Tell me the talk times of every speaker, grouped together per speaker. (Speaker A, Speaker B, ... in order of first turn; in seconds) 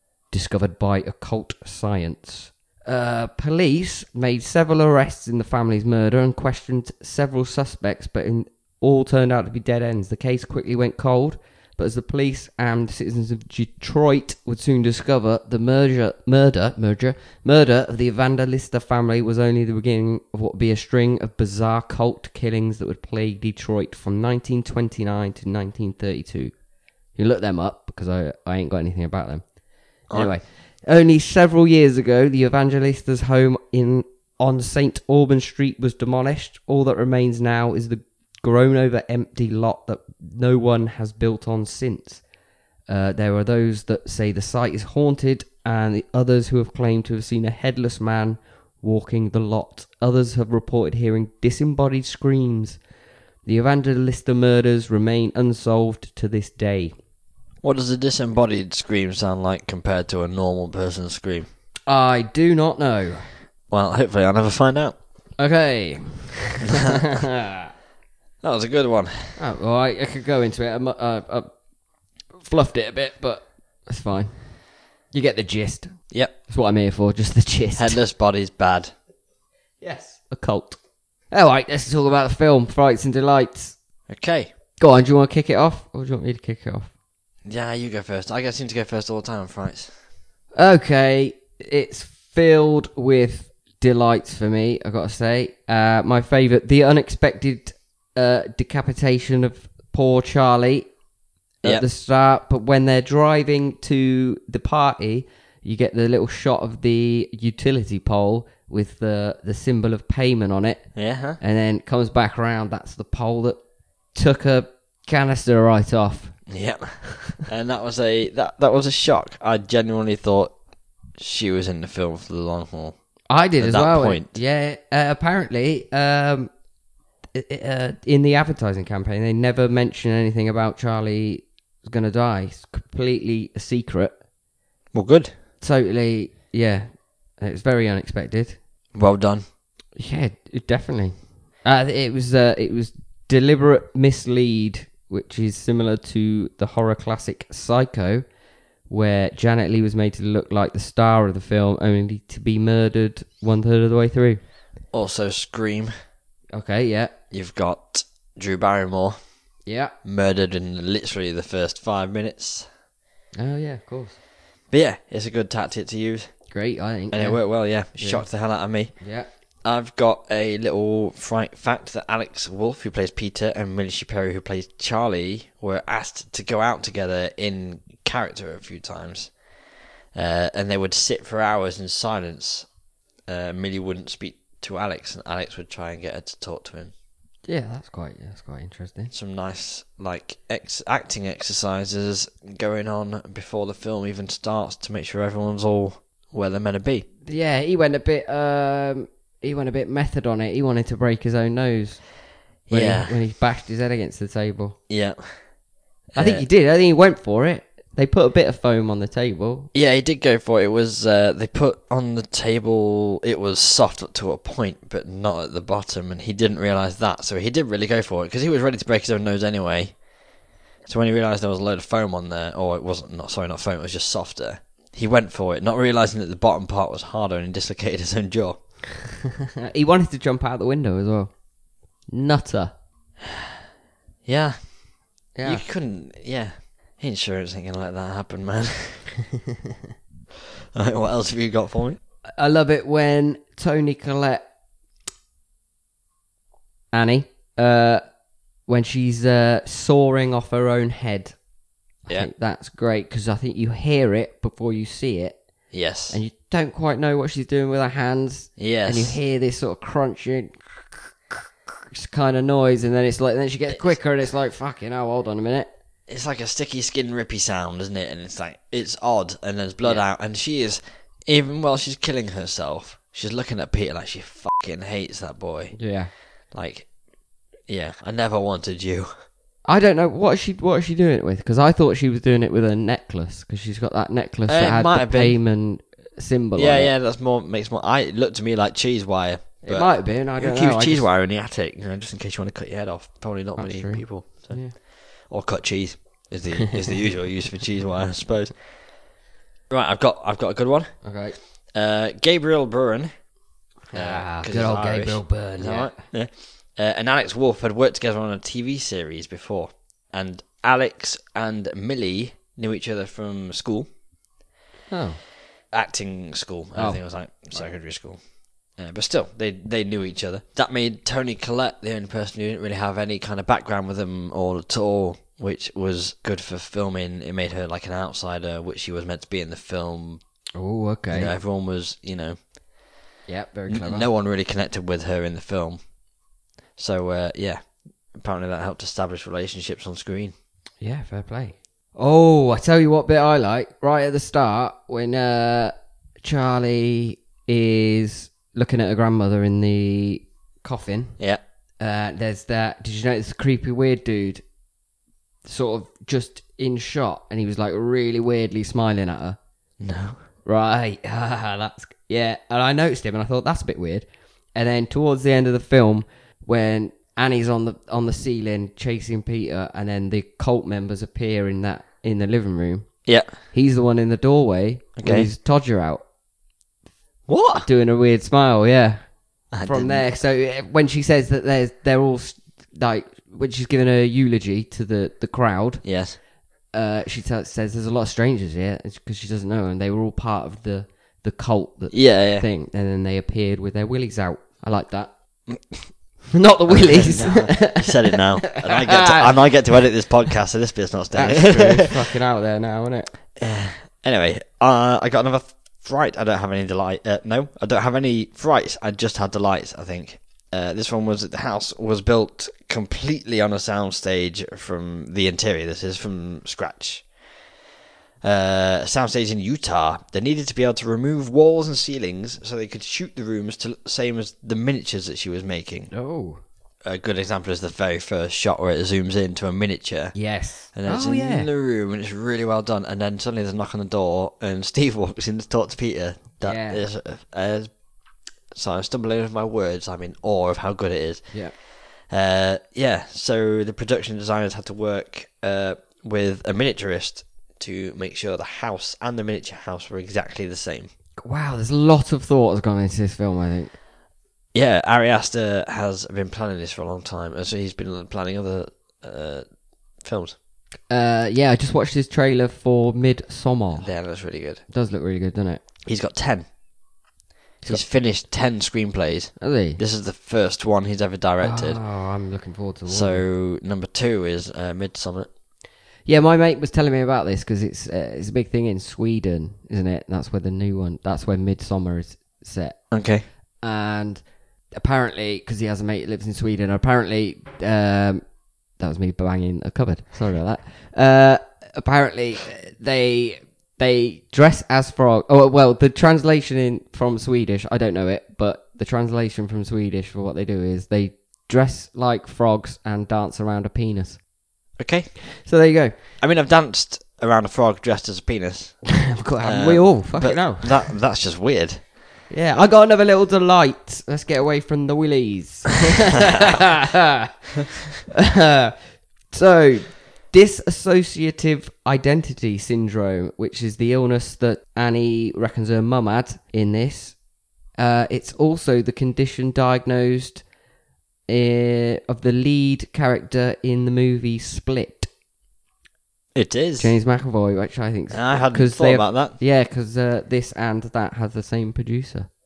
Speaker A: 0.3-26.5, 27.2-29.4, 30.1-42.2, 42.9-52.8, 53.5-56.9, 61.9-63.3, 65.4-67.7, 69.4-71.5, 72.4-74.6, 75.1-75.9, 76.5-78.0, 79.8-80.8, 81.3-83.8, 84.8-86.9, 90.5-100.9, 101.6-110.9, 111.4-113.6, 114.1-116.4, 123.3-126.5, 127.3-134.2, 135.6-136.9, 137.4-138.6, 140.0-148.2, 148.9-154.4, 156.5-157.1, 159.7-159.9, 163.4-164.2, 166.5-167.4, 167.9-168.2, 169.0-169.3, 187.4-189.1, 197.3-202.1, 202.7-204.8, 206.2-209.7, 229.7-231.3, 232.1-232.7, 235.3-235.6, 242.4-244.4, 246.9-248.0, 248.7-251.4, 252.1-255.4, 256.1-260.6, 261.9-265.7, 275.8-276.1, 279.6-286.9, 289.6-291.1, 293.6-294.8, 301.0-301.4, 303.9-306.0, 314.9-315.2, 316.8-317.0, 330.6-331.3, 333.3-334.1, 340.8-351.2, 351.8-354.4, 355.4-359.4, 360.4-373.0, 373.5-376.0, 377.7-385.8, 386.7-395.1, 396.3-399.4, 401.1-403.1, 425.9-426.4, 430.1-431.5, 436.4-436.8, 451.2-453.8, 460.9-463.9, 464.7-465.6, 469.4-469.8, 471.4-473.2, 476.1-482.8, 483.6-504.2, 505.4-506.0, 509.1-510.9, 512.3-517.2, 518.2-527.2, 527.7-530.5, 531.3-535.1, 536.8-542.3
Speaker B: 57.6-61.5, 63.7-65.0, 66.6-67.0, 68.4-69.4, 77.8-78.9, 84.1-84.5, 87.5-89.9, 111.0-111.4, 116.5-120.5, 121.2-123.0, 123.6-124.4, 134.9-135.3, 138.9-139.4, 154.9-155.9, 157.3-159.2, 160.1-162.7, 164.7-166.3, 167.1-168.9, 169.6-179.3, 180.1-182.7, 183.3-186.9, 189.1-197.1, 202.7-203.2, 204.9-205.4, 206.1-206.5, 209.7-220.0, 220.8-228.6, 234.2-234.7, 235.4-239.1, 240.7-242.0, 255.7-256.2, 258.6-259.2, 266.1-275.8, 276.5-276.9, 277.7-279.1, 284.5-285.4, 286.6-294.6, 295.3-298.5, 299.7-300.9, 301.7-303.1, 303.9-313.9, 315.7-318.2, 318.8-330.2, 331.1-332.4, 333.7-335.9, 336.8-340.3, 359.8-360.2, 373.1-373.3, 375.0-375.3, 377.3-377.7, 379.5-380.1, 385.8-386.2, 391.9-392.5, 395.5-395.9, 396.7-402.1, 403.4-417.1, 418.2-425.9, 426.8-430.2, 430.7-437.7, 438.5-441.4, 442.0-450.9, 454.5-459.4, 460.0-460.4, 463.8-464.6, 465.9-466.5, 467.6-471.8, 472.9-475.3, 482.9-483.2, 504.8-505.2, 506.2-511.9, 516.3-516.6, 536.3-536.9, 538.1-539.4